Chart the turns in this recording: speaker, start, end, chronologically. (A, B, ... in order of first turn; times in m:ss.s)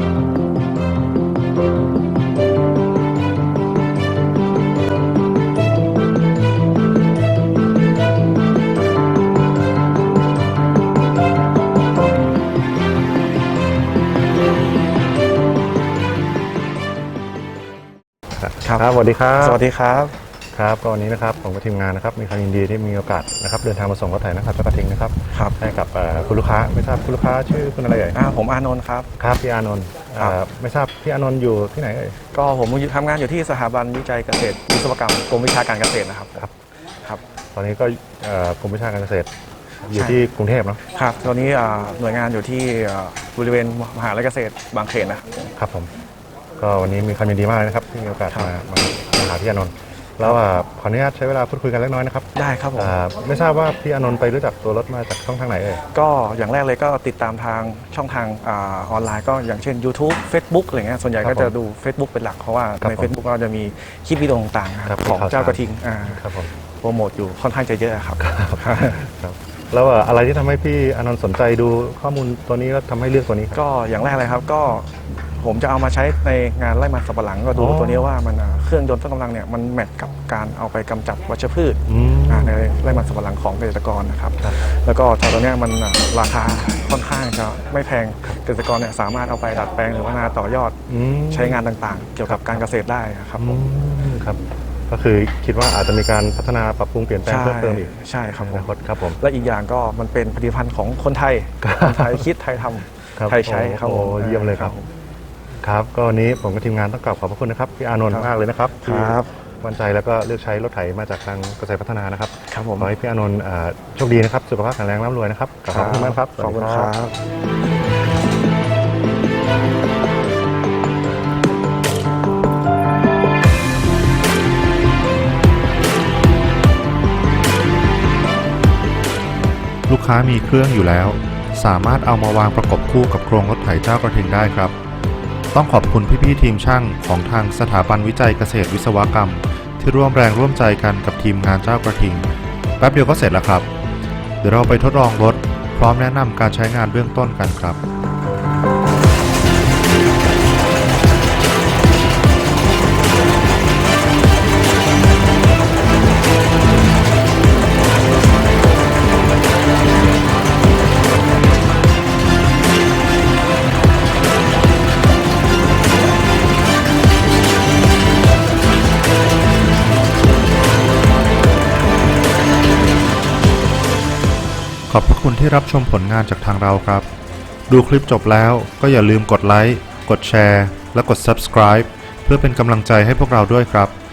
0:18.4-0:19.6 A
0:18.6-0:20.1 B
0:20.5-0:28.2 A
0:25.3-0:25.6 B
0:28.1-0:29.1 B
0:29.2-0:32.2 A
0:32.3-0:36.5 B
0:37.5-0:39.3 A
0:39.8-0:40.8 A
0:39.9-0:40.2 B
0:40.9-0:45.3 B
0:45.5-0:45.9 A
0:46.6-0:55.8 A
0:52.3-0:52.9 B
0:55.9-1:09.0 B
1:01.2-1:01.5 A
1:02.8-1:03.1 A
1:04.9-1:06.5 A
1:08.2-1:13.6 A
1:13.5-1:33.6 B
1:17.5-1:18.1 A
1:21.9-1:22.6 A
1:30.9-1:31.6 A
1:32.2-1:32.6 A
1:33.4-1:39.2 A
1:37.2-1:44.9 B
1:41.6-1:42.2 A
1:43.2-1:44.8 A
1:45.6-1:56.9 A
1:48.8-1:49.3 B
1:52.5-1:52.9 B
1:55.7-1:57.2 B
2:09.9-2:14.8 C
2:15.5-2:22.2 C
2:22.8-2:23.7 C
2:24.4-2:27.8 C
2:54.9-2:57.1 C
2:57.7-3:04.0 C